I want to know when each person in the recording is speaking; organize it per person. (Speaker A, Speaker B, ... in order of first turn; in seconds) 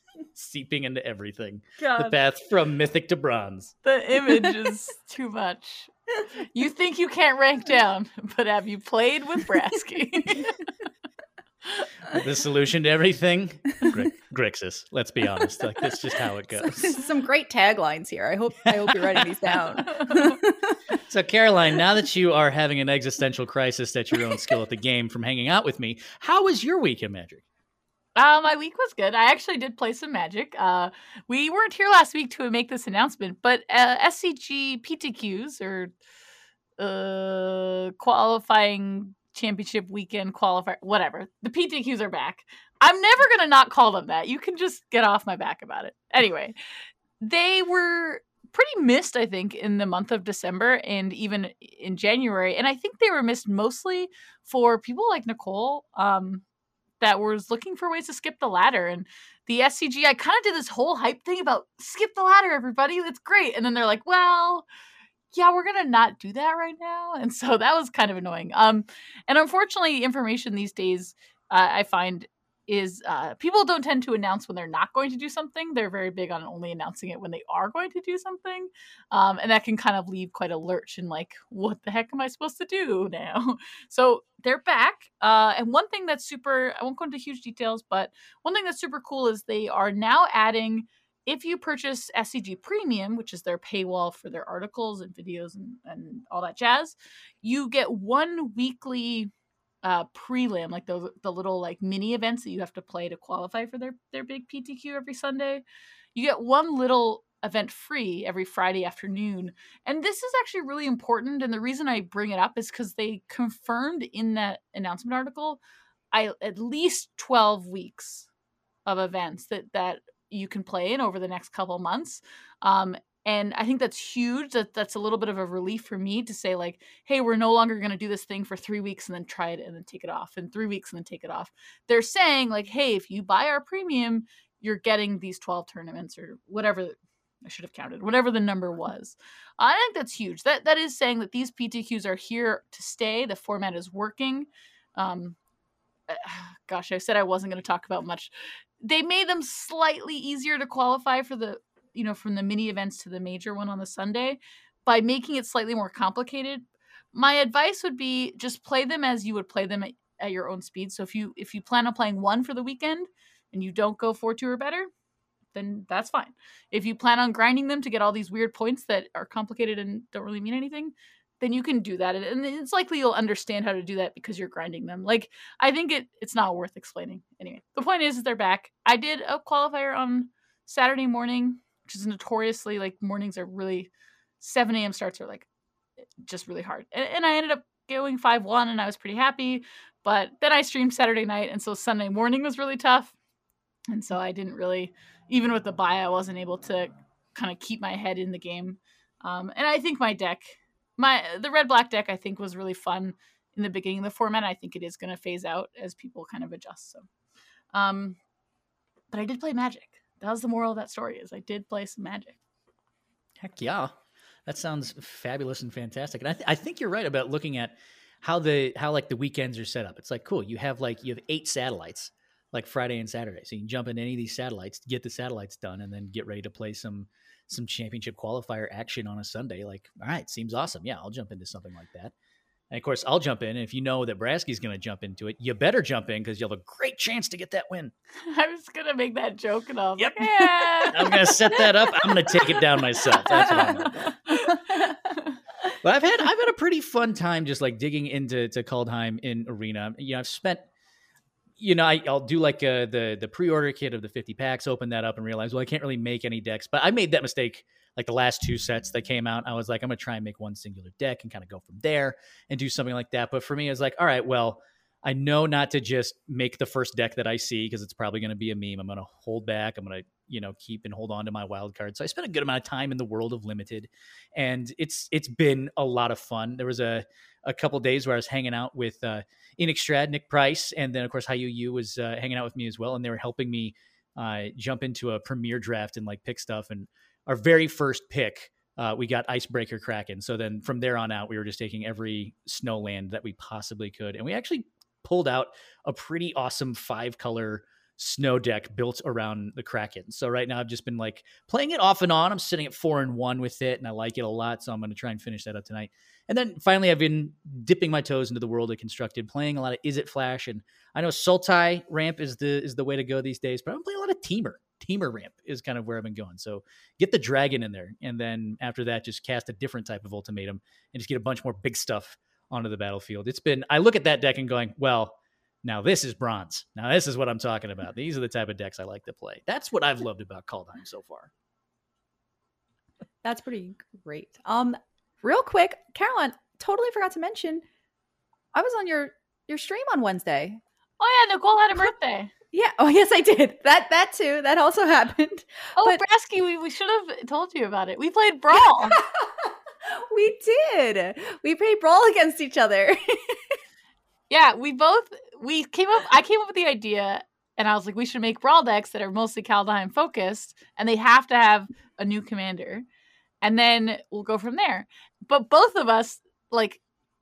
Speaker A: 0.3-3.8, 12.1-17.0, 18.9-19.8, 21.1-27.4, 213.4-213.9, 214.5-232.1, 232.7-237.9, 240.0-244.1, 245.8-250.7, 251.6-331.3
Speaker B: 1.8-2.1, 3.8-10.7, 19.9-20.4, 28.2-35.9, 36.8-46.5, 47.2-56.4, 57.0-64.7, 65.3-99.3, 99.8-115.6, 116.1-118.3, 118.9-145.4, 146.1-164.9, 165.6-185.5, 186.2-193.1, 193.9-207.1, 207.7-208.2, 209.1-212.4, 238.2-245.4, 341.0-342.3, 345.8-349.0, 354.3-362.9, 363.4-366.8
Speaker C: 16.6-20.8, 333.2-337.6, 338.5-340.6, 342.5-346.0, 348.9-353.6